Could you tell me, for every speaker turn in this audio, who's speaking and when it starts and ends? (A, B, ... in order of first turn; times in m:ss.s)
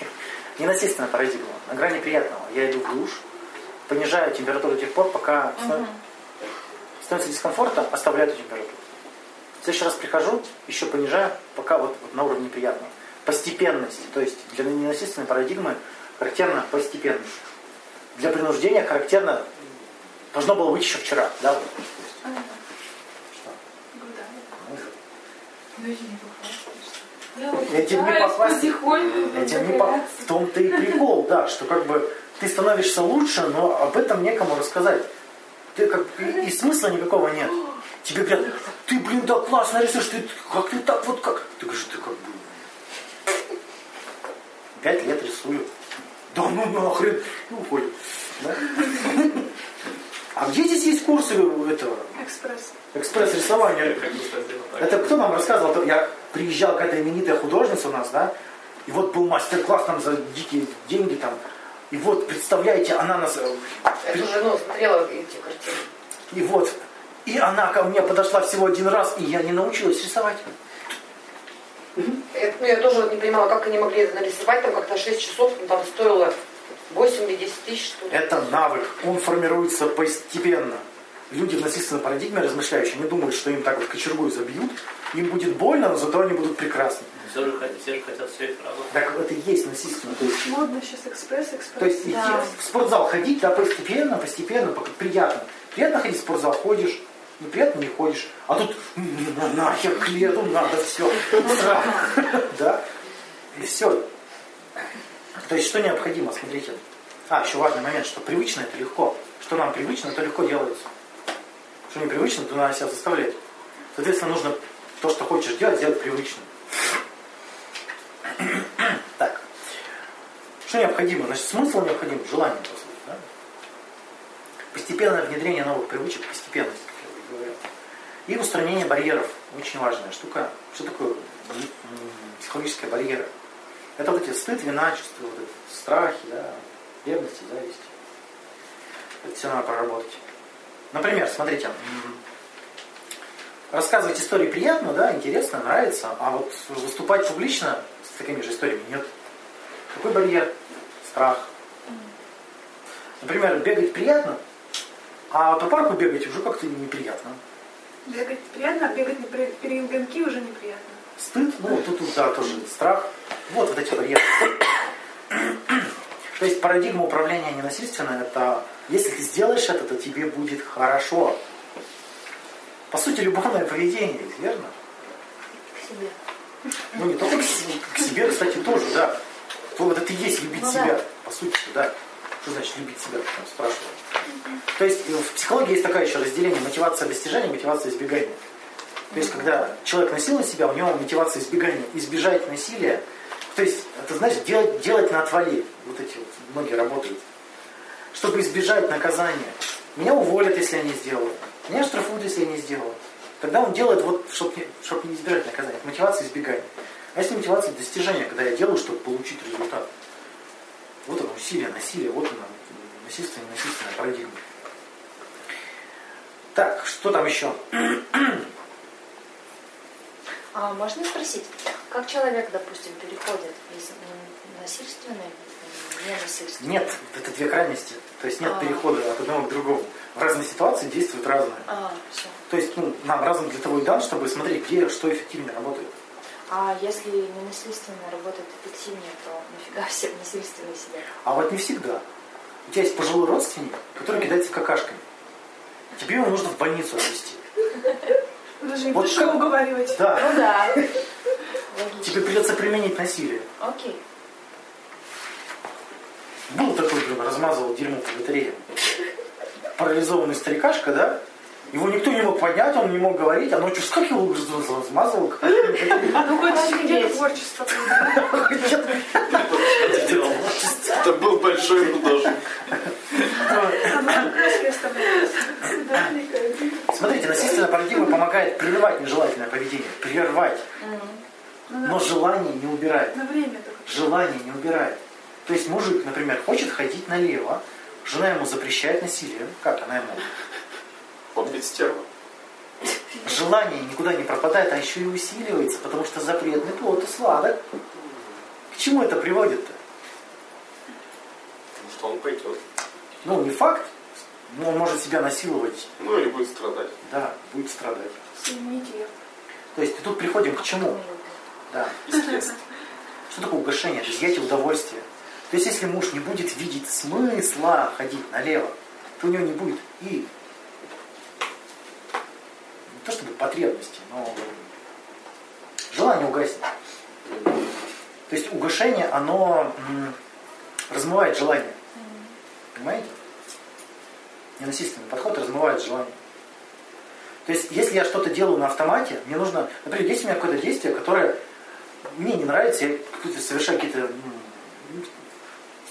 0:00.6-0:03.2 A
0:03.9-0:05.8 A
0:05.6-0:06.0 B
0:07.0-0:08.8 A
0:09.6-0:17.4 A
0:18.1-0:19.5 A
0:20.3-0:21.9 A
0:22.2-0:22.6 C
0:23.9-0:24.6 C
0:24.6-0:24.9 A
0:25.8-0:28.5 B
0:27.7-0:35.1 A
0:28.8-0:29.7 C
0:28.9-0:29.4 D
0:29.5-0:29.8 B
0:35.7-0:42.6 A
0:44.8-0:45.7 A
0:46.3-0:49.4 A
0:50.3-0:52.1 A
0:52.1-0:52.7 C
0:52.9-0:54.0 A
0:53.2-0:55.2 E
0:54.8-0:58.3 A
0:58.8-1:01.4 A
1:01.9-1:04.3 A
1:04.0-1:05.8 F
1:06.3-1:10.5 A
1:12.1-1:16.3 F
1:16.9-1:18.2 F
1:18.1-1:27.1 A
1:27.2-1:28.9 E
1:28.9-1:30.5 A
1:30.2-1:32.4 C
1:31.8-1:42.8 A
1:32.1-1:32.5 B
1:43.5-1:44.0 A
1:45.4-1:50.8 A
1:51.9-1:53.4 A
1:53.9-1:56.5 A
1:58.4-1:59.4 A
2:00.6-2:03.2 A
2:04.7-2:07.6 A
2:08.3-2:13.3 A
2:14.0-2:17.9 A
2:19.2-2:20.2 A
2:20.9-2:22.2 A
2:23.7-2:29.1 A
2:29.9-2:31.5 A
2:33.2-2:34.4 A
2:35.3-2:37.4 A
2:38.0-2:41.0 C
2:41.2-2:44.7 A
2:45.3-2:51.4 A
2:52.9-2:54.7 A
2:55.6-2:56.1 B
2:56.9-2:59.2 A
2:59.7-3:04.0 A
3:00.5-3:01.0 B
3:04.7-3:08.4 A
3:09.1-3:09.7 B
3:09.1-3:17.2 A
3:18.1-3:29.9 A
3:31.0-3:34.4 A
3:36.5-3:38.4 A
3:40.5-3:46.9 B
3:46.6-3:51.7 A
3:48.4-3:48.8 B
3:51.6-3:52.4 B
3:52.5-3:55.9 A
3:56.5-4:01.1 B
4:01.2-4:02.0 A
4:02.7-4:05.0 A
4:06.0-4:07.4 A
4:08.6-4:10.3 C
4:08.9-4:10.8 A
4:10.2-4:10.8 B
4:11.7-4:12.3 B
4:12.0-4:13.5 A
4:13.6-4:14.0 B
4:16.5-4:18.6 A
4:19.8-4:26.3 A
4:26.0-4:28.5 C
4:26.3-4:27.3 B
4:27.8-4:31.2 A
4:29.3-4:30.5 E
4:30.8-4:32.4 D
4:33.3-4:34.4 A
4:33.4-4:36.8 C
4:36.9-4:40.6 A
4:40.8-4:41.2 B
4:41.7-4:42.2 C
4:41.8-4:43.2 A
4:43.1-4:44.1 C
4:43.8-4:50.2 A
4:51.3-4:52.0 D
4:53.2-4:57.6 A
4:58.0-4:58.3 D
4:58.7-4:59.8 A
5:01.8-5:02.6 D
5:03.2-5:03.9 A
5:04.5-5:05.9 A
5:06.0-5:06.9 D
5:07.0-5:08.2 A
5:08.4-5:09.1 C
5:09.7-5:11.0 A
5:10.6-5:11.3 B
5:11.7-5:12.0 A
5:12.0-5:12.5 D
5:13.3-5:20.3 A
5:22.9-5:24.7 A
5:25.9-5:26.7 A
5:28.3-5:30.2 A
5:30.9-5:31.8 A
5:32.7-5:33.1 A
5:34.6-5:36.2 A
5:37.4-5:41.4 A
5:42.0-5:45.1 A